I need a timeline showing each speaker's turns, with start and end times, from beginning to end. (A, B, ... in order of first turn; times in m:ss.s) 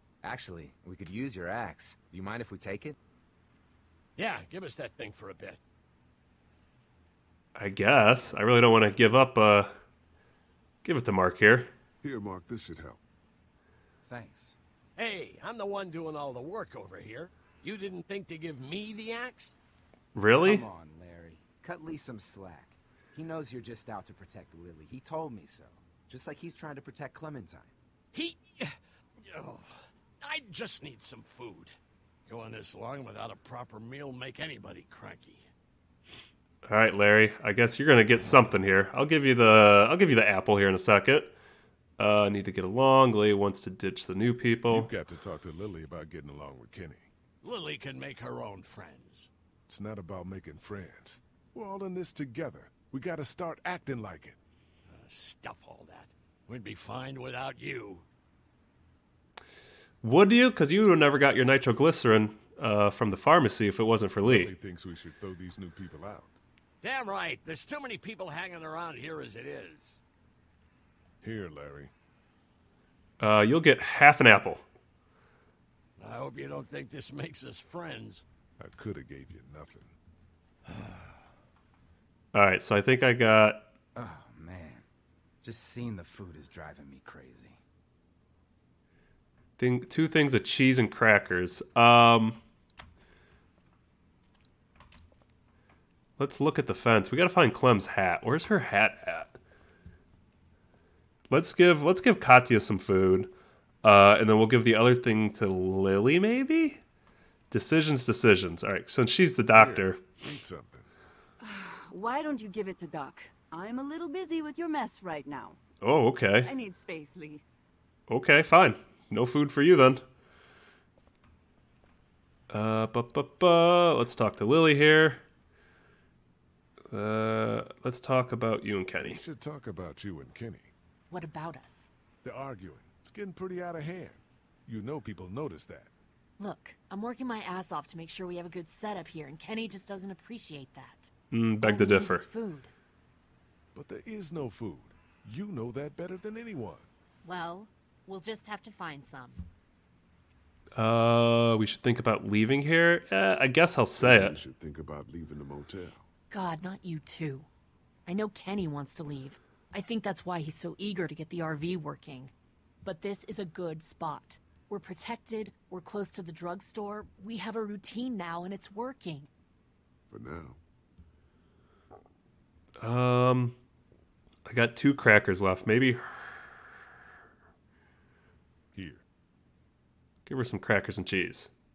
0:00.2-0:03.0 A
0:04.2-0:05.6 B
0:07.5-0:09.7 C
0:10.8-0:11.7 C
0:12.0-0:13.0 D
0:14.0-0:14.6 A
0:15.0-0:19.6 B
0:20.1-0:20.6 C
0:20.4-0:27.7 A
0:28.1-0:31.8 B
0:32.3-0:35.4 B
0:36.6-0:41.4 C
0:42.0-0:44.9 C
0:44.7-0:47.1 D
0:47.4-0:49.3 B
0:49.7-0:54.4 D
0:54.9-0:58.0 B
1:00.0-1:04.5 C
1:04.2-1:06.3 D
1:06.8-1:10.0 B
1:11.2-1:11.9 D
1:13.2-1:14.6 C
1:16.0-1:18.2 B
1:18.6-1:19.9 D
1:22.3-1:23.7 C
1:23.9-1:24.8 A
1:25.4-1:27.6 A
1:29.6-1:32.4 C
1:36.2-1:39.4 C
1:41.3-1:43.3 C
1:43.8-1:46.8 C
1:47.5-1:50.0 C
1:49.5-1:50.9 D
1:51.4-1:55.6 E
1:55.8-1:56.5 C
1:56.4-1:57.4 E
1:58.1-2:00.0 C
2:02.5-2:05.2 C
2:06.9-2:09.2 C
2:09.0-2:10.7 D
2:11.1-2:11.9 F
2:12.2-2:15.9 D
2:16.4-2:22.7 F
2:21.3-2:22.2 C
2:23.7-2:26.9 D
2:27.2-2:29.4 F
2:30.7-2:34.4 C
2:34.0-2:36.1 D
2:36.3-2:37.5 F
2:38.0-2:42.3 F
2:42.8-2:49.3 F
2:50.1-2:50.6 D
2:52.8-2:53.6 C
2:54.4-2:56.6 C
2:58.7-2:59.0 D
3:00.3-3:01.5 C